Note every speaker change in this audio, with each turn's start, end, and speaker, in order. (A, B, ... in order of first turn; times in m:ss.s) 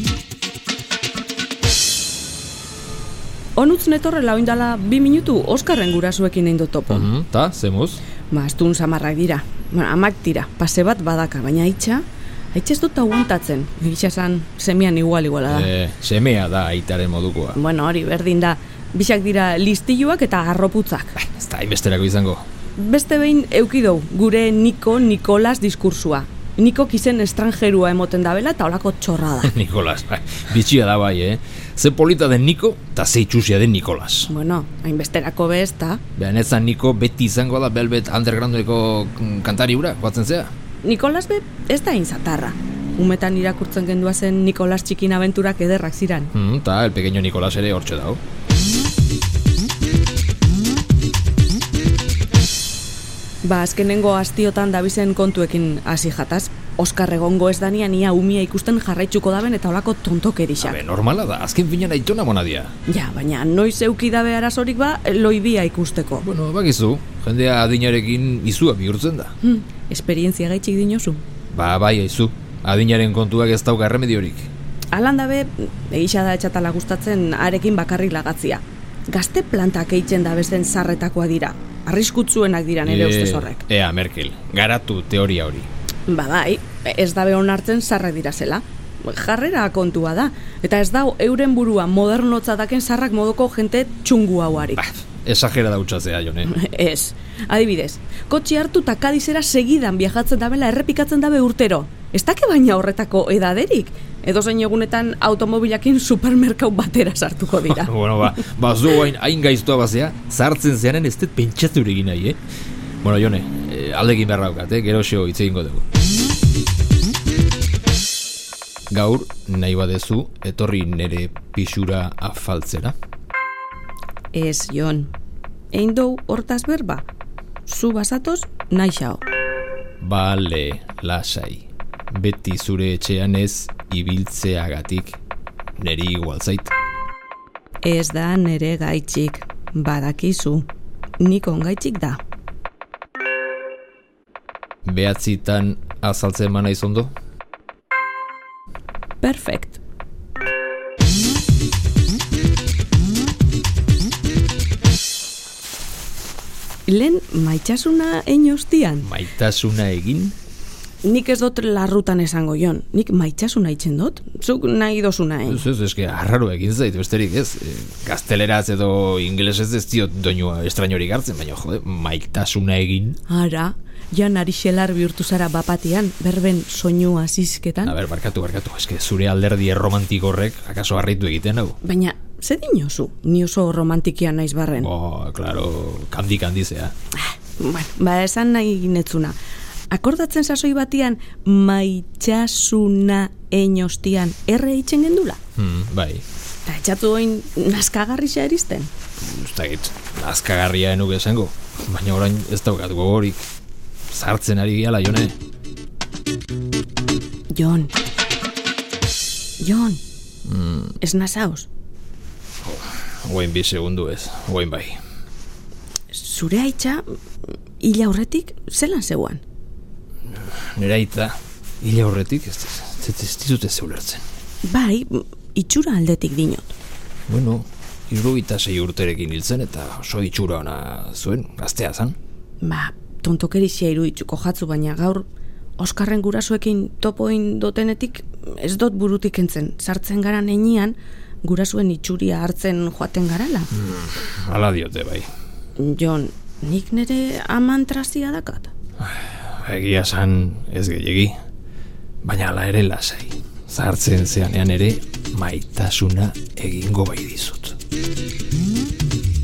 0:03.6-0:07.1 A
0:06.9-0:08.0 B
0:08.3-0:15.7 A
0:15.5-0:17.6 B
0:17.5-0:21.2 A
0:21.2-0:22.4 B
0:22.8-0:29.6 A
0:29.4-0:34.3 B
0:34.3-0:36.0 A
0:36.2-0:40.5 B
0:40.8-0:46.3 A
0:46.3-0:48.2 B
0:53.4-1:00.8 A
1:00.6-1:02.7 B
1:02.9-1:06.3 A
1:06.2-1:09.3 B
1:09.4-1:11.2 A
1:11.5-1:14.5 B
1:14.9-1:23.6 A
1:22.8-1:25.7 B
1:26.1-1:34.8 A
1:34.8-1:36.5 B
1:36.4-1:47.9 A
1:47.6-1:52.4 B
1:53.0-1:55.8 B
1:58.9-2:03.0 B
2:04.3-2:05.1 A
2:05.7-2:07.1 A
2:07.7-2:09.2 A
2:10.0-2:15.2 B
2:15.8-2:16.7 B
2:17.8-2:20.7 A
2:21.2-2:22.2 A
2:24.9-2:27.1 B
2:29.2-2:29.8 A
2:36.9-2:39.1 A
2:39.0-2:40.4 B
2:41.0-2:45.7 A
2:45.5-2:53.2 B
2:53.3-2:58.0 A
2:57.8-3:01.8 B
3:01.8-3:04.9 A
3:04.8-3:06.9 B
3:07.2-3:09.4 A
3:09.9-3:15.4 A
3:15.6-3:16.2 B
3:16.6-3:18.9 A
3:19.2-3:23.5 B
3:24.1-3:25.4 B
3:27.5-3:27.9 A
3:29.6-3:30.0 A
3:30.4-3:31.0 B
3:31.0-3:31.7 A
3:32.6-3:35.0 B
3:36.1-3:37.0 A
3:37.8-3:39.4 A
3:40.4-3:44.2 B
3:44.6-3:46.8 A
3:47.3-3:52.2 B
3:52.6-3:55.3 A
3:55.8-4:03.7 A
4:03.7-4:05.3 B
4:05.8-4:08.7 A
4:09.0-4:11.4 B
4:12.2-4:17.8 B